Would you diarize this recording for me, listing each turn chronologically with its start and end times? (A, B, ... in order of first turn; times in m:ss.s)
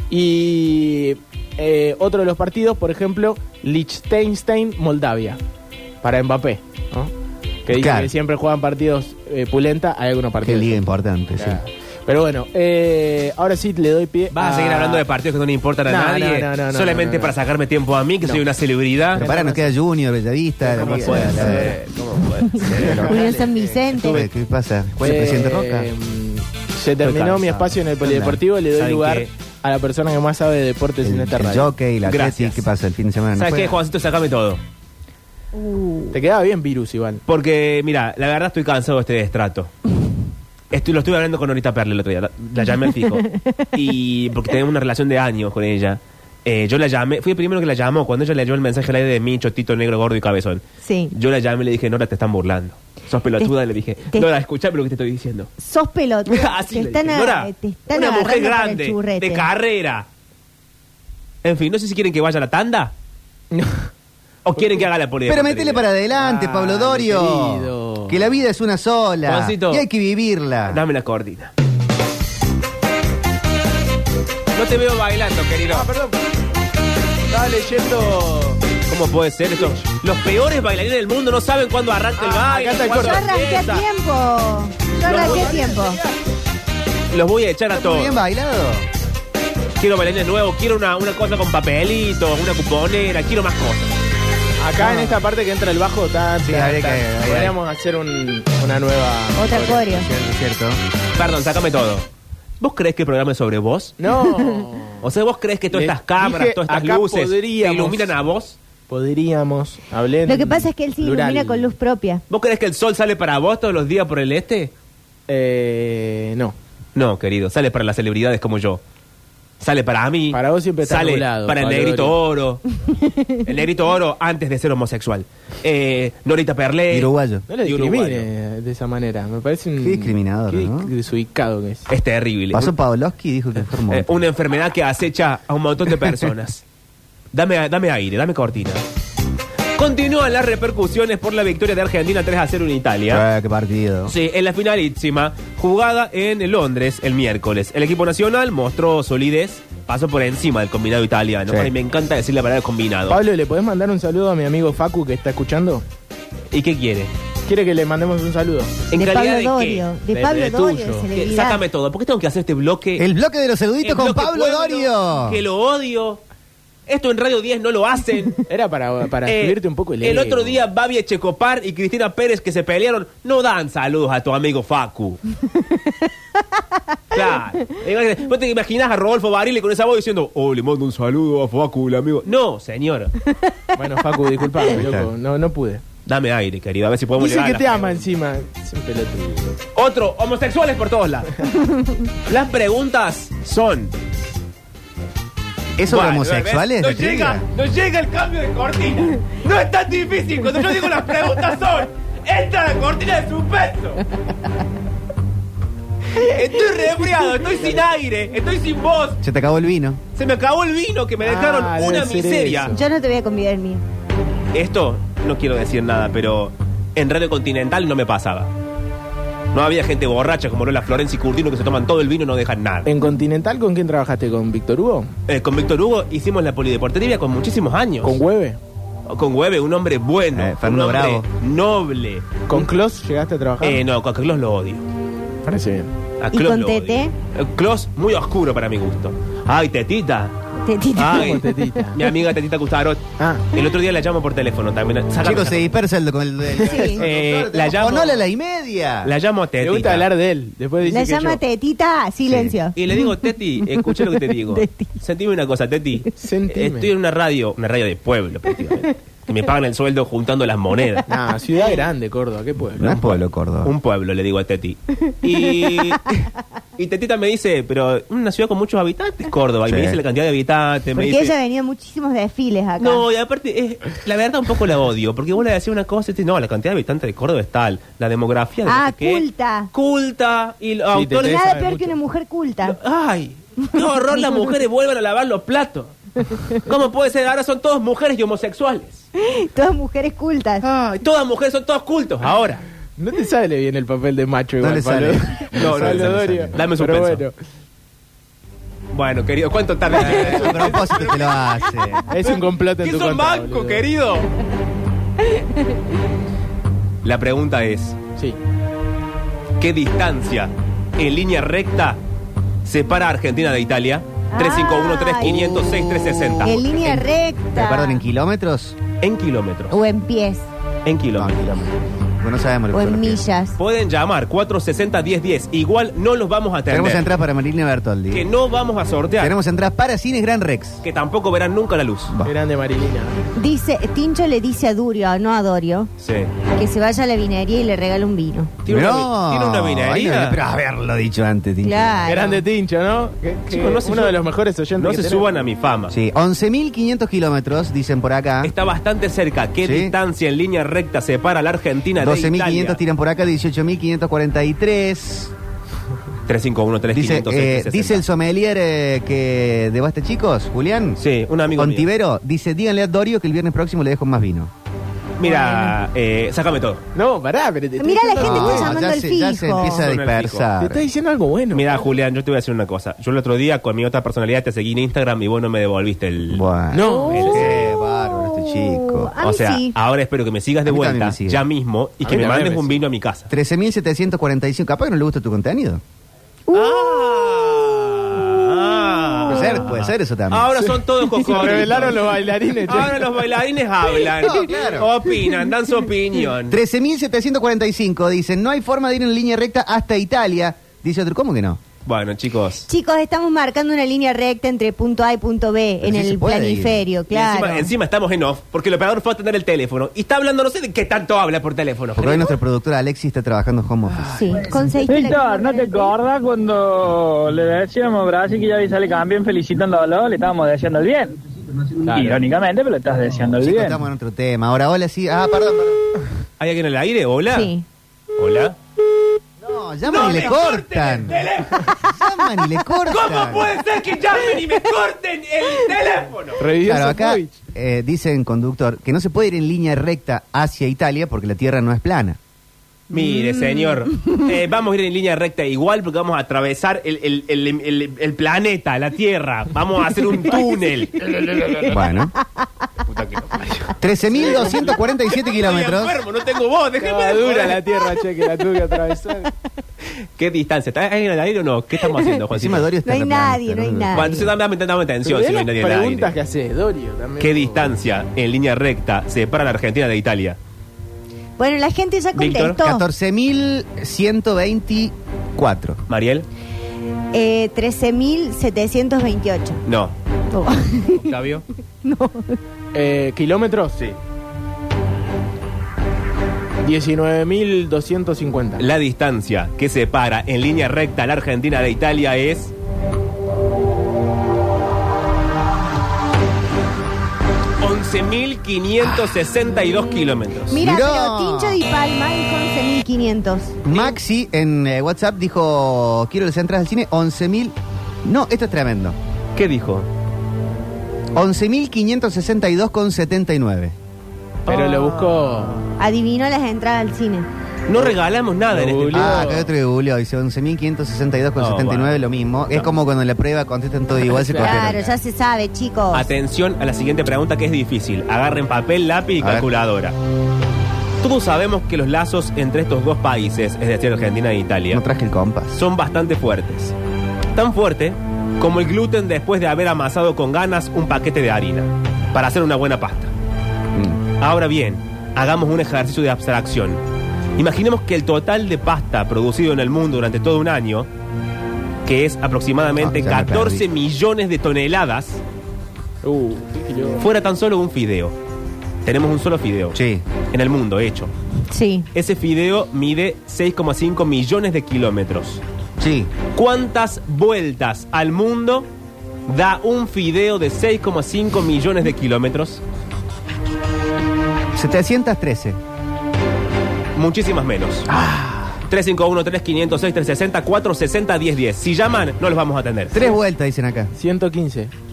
0:00.1-0:05.4 A
0:06.0-0:07.1 A
0:07.7-0:15.0 A
0:07.7-0:08.1 B
0:10.4-0:11.6 B
0:14.3-0:19.3 C
0:15.9-0:17.3 A
0:19.1-0:19.7 A
0:19.1-0:21.8 B
0:20.6-0:21.8 A
0:20.7-0:23.3 C
0:22.5-0:24.3 D
0:22.6-0:25.9 B
0:25.0-0:31.7 A
0:27.0-0:27.7 C
0:28.0-0:28.4 B
0:28.7-0:29.3 C
0:31.0-0:33.8 B
0:32.0-0:32.7 C
0:33.4-0:34.6 C
0:35.5-0:36.2 D
0:36.1-0:37.2 A
0:37.3-0:39.7 C
0:40.7-0:55.5 C
0:50.8-0:51.1 D
0:55.6-0:59.5 D
0:56.3-1:00.1 C
1:01.4-1:02.9 C
1:03.5-1:03.9 A
1:04.4-1:05.8 C
1:04.6-1:04.8 A
1:05.3-1:10.8 B
1:06.2-1:08.2 A
1:09.2-1:09.8 C
1:10.7-1:11.5 C
1:14.5-1:15.9 C
1:15.7-1:16.2 A
1:17.3-1:18.6 A
1:18.9-1:23.9 C
1:22.2-1:23.3 A
1:22.9-1:26.0 D
1:25.0-1:25.8 C
1:25.1-1:26.1 A
1:27.1-1:28.2 C
1:27.7-1:28.9 B
1:29.8-1:34.0 C
1:34.6-1:39.9 A
1:34.8-1:35.2 B
1:36.4-1:37.6 B
1:39.4-1:40.1 D
1:39.9-1:40.8 B
1:41.2-1:42.1 C
1:42.6-1:44.0 C
1:44.0-1:45.0 A
1:45.0-1:48.6 C
1:45.7-1:48.1 A
1:48.9-1:51.7 A
1:50.3-1:52.2 D
1:52.3-1:54.7 C
1:55.3-1:56.6 A
1:57.0-1:58.8 C
1:59.6-2:02.6 C
2:00.3-2:02.2 A
2:03.4-2:07.1 C
2:06.9-2:07.5 B
2:07.5-2:11.9 A
2:07.6-2:08.3 C
2:09.8-2:10.9 B
2:11.9-2:12.7 C
2:12.5-2:14.2 B
2:13.9-2:16.6 C
2:17.3-2:18.8 C
2:19.8-2:23.2 C
2:23.1-2:24.1 B
2:24.1-2:33.2 C
2:33.1-2:35.8 A
2:36.5-2:37.1 C
2:37.5-2:38.8 A
2:38.9-2:39.9 C
2:39.0-2:41.6 D
2:40.1-2:41.1 A
2:41.1-2:43.1 C
2:43.0-2:45.4 B
2:43.8-2:46.2 C
2:46.9-2:48.5 C
2:48.5-2:50.6 A
2:49.3-2:55.2 C
2:57.1-3:03.1 C
3:03.8-3:05.8 A
3:04.7-3:05.1 B
3:06.1-3:08.0 C
3:07.2-3:09.6 A
3:09.8-3:11.4 C
3:12.3-3:13.9 C
3:15.8-3:17.4 B
3:15.9-3:24.0 C
3:26.2-3:29.2 C
3:29.2-3:30.0 B
3:30.2-3:32.7 C
3:31.2-3:32.8 A
3:32.7-3:33.8 D
3:34.5-3:38.5 C
3:39.5-3:42.9 C
3:42.8-3:45.1 A
3:45.3-3:48.2 C
3:48.0-3:48.6 A
3:49.1-3:52.6 C
3:50.3-3:51.3 B
3:52.5-3:53.8 A
3:53.6-3:54.8 C
3:55.4-3:55.9 A
3:56.2-4:00.4 C
3:56.3-3:57.1 D
4:00.6-4:01.5 D
4:01.0-4:01.4 C
4:01.1-4:02.0 A
4:01.9-4:05.7 C
4:03.2-4:03.5 A
4:05.2-4:09.1 B
4:06.6-4:06.9 A
4:06.7-4:07.0 D
4:07.0-4:08.2 C
4:09.0-4:10.1 C
4:09.6-4:11.4 A
4:10.8-4:13.1 D
4:12.3-4:12.6 B
4:12.8-4:21.1 C
4:13.8-4:14.9 D
4:16.2-4:16.9 A
4:21.1-4:23.2 A
4:22.8-4:23.7 B
4:23.6-4:31.3 C
4:25.4-4:25.9 D
4:29.7-4:30.0 B
4:30.9-4:33.0 D
4:32.8-4:41.6 C
4:38.7-4:39.7 D
4:40.9-4:42.0 A
4:41.2-4:42.8 D
4:42.6-4:45.9 C
4:46.5-4:49.1 C
4:49.2-4:50.6 D
4:50.6-4:52.6 C
4:53.0-4:57.4 A
4:54.6-4:56.6 B
4:55.6-4:57.2 C
4:58.9-5:01.5 C
5:00.0-5:02.1 B
5:00.3-5:00.6 D
5:02.1-5:03.9 A
5:02.3-5:04.3 C
5:07.0-5:08.0 C
5:09.6-5:12.0 C
5:12.6-5:17.0 C
5:14.3-5:15.4 D
5:15.2-5:16.6 B
5:16.4-5:18.0 D
5:17.6-5:18.8 B
5:19.0-5:19.8 C
5:19.7-5:20.5 D
5:20.8-5:21.4 C
5:21.1-5:23.2 B
5:22.7-5:23.6 D
5:23.6-5:27.1 C
5:26.7-5:28.3 B
5:28.1-5:29.4 C
5:29.2-5:30.8 B
5:30.8-5:32.1 C
5:32.2-5:33.2 A
5:33.4-5:35.9 D
5:36.0-5:36.3 C
5:36.5-5:38.5 D
5:38.6-5:40.4 C
5:38.7-5:42.0 B
5:41.6-5:42.4 D
5:42.1-5:45.3 A
5:43.5-5:44.2 C
5:44.8-5:46.0 C
5:45.9-5:48.5 B
5:48.4-5:52.8 C
5:49.6-5:49.9 B
5:52.0-5:55.3 B
5:56.3-5:58.0 C
5:56.9-6:01.0 B
6:01.0-6:01.9 C
6:01.6-6:04.5 B
6:05.2-6:06.8 C
6:05.2-6:05.8 D
6:07.0-6:08.8 A
6:07.8-6:09.8 D
6:08.2-6:10.8 B
6:09.6-6:10.5 C
6:10.6-6:11.8 A
6:11.5-6:16.4 C
6:16.3-6:19.1 B
6:16.7-6:17.2 A
6:16.8-6:19.8 D
6:17.1-6:17.7 C
6:19.2-6:23.3 C
6:20.7-6:21.4 B
6:22.0-6:22.8 A
6:23.3-6:25.8 B
6:26.5-6:27.4 D
6:26.5-6:36.6 C
6:29.2-6:29.5 D
6:29.3-6:30.6 B
6:30.6-6:33.1 A
6:34.2-6:34.9 B
6:36.5-6:41.6 B
6:41.9-6:42.7 C
6:42.7-6:47.7 D
6:45.8-6:46.8 B
6:47.1-6:52.4 C
6:52.0-6:54.3 B
6:54.2-6:56.0 D
6:54.6-7:03.8 E
7:01.9-7:02.2 A
7:03.4-7:05.8 B
7:06.4-7:07.5 C
7:07.3-7:07.6 D
7:08.2-7:08.6 C
7:09.4-7:11.2 B
7:09.8-7:11.8 C
7:11.8-7:13.6 B
7:12.9-7:16.4 C
7:16.4-7:17.4 A
7:16.6-7:22.2 B
7:22.9-7:31.1 C
7:22.9-7:24.2 D
7:31.6-7:31.9 D
7:31.6-7:32.1 B
7:32.9-7:33.5 C
7:33.8-7:36.0 B
7:34.1-7:34.7 A
7:34.2-7:34.6 C
7:35.2-7:37.8 C
7:36.8-7:39.3 A
7:40.2-7:42.7 C
7:41.9-7:42.2 D
7:42.3-7:44.2 B
7:42.8-7:44.3 D
7:43.9-7:46.2 C
7:45.0-7:47.7 A
7:47.2-7:50.4 C
7:51.4-7:52.9 D
7:52.1-7:52.6 C
7:52.6-7:55.8 B
7:55.9-7:56.3 C
7:57.1-7:59.6 D
7:59.7-7:59.9 C
8:00.3-8:01.1 D
8:00.9-8:01.4 C
8:01.8-8:02.4 D
8:02.7-8:03.8 A
8:06.6-8:08.6 A
8:08.6-8:12.5 C
8:17.6-8:20.6 C
8:19.7-8:23.6 D
8:20.6-8:21.6 B
8:23.6-8:29.0 B
8:23.7-8:24.0 C
8:29.4-8:29.9 C
8:31.2-8:33.8 B
8:34.5-8:35.6 A
8:34.5-8:35.6 C
8:35.8-8:37.3 D
8:37.7-8:39.3 C
8:38.5-8:39.5 A
8:38.9-8:45.0 B
8:41.4-8:42.7 C
8:44.1-8:44.8 A
8:44.4-8:46.1 D
8:45.9-8:50.0 C
8:49.2-8:49.5 B
8:51.0-8:54.8 C
8:54.7-8:55.6 B
8:55.6-8:56.8 C
8:57.4-9:03.1 C
9:03.8-9:04.0 B
9:04.2-9:06.8 C
9:07.4-9:10.9 C
9:11.8-9:15.2 C
9:12.8-9:13.7 B
9:16.0-9:17.0 A
9:17.0-9:18.2 C
9:18.8-9:19.8 C
9:19.7-9:20.0 B
9:20.3-9:21.1 C
9:21.5-9:21.9 D
9:21.9-9:25.4 C
9:25.8-9:26.1 B
9:26.3-9:28.7 C
9:29.3-9:32.6 C
9:34.5-9:35.6 B
9:37.0-9:37.9 C
9:37.9-9:38.5 A
9:38.7-9:43.0 C
9:42.9-9:43.9 B
9:44.0-9:44.7 A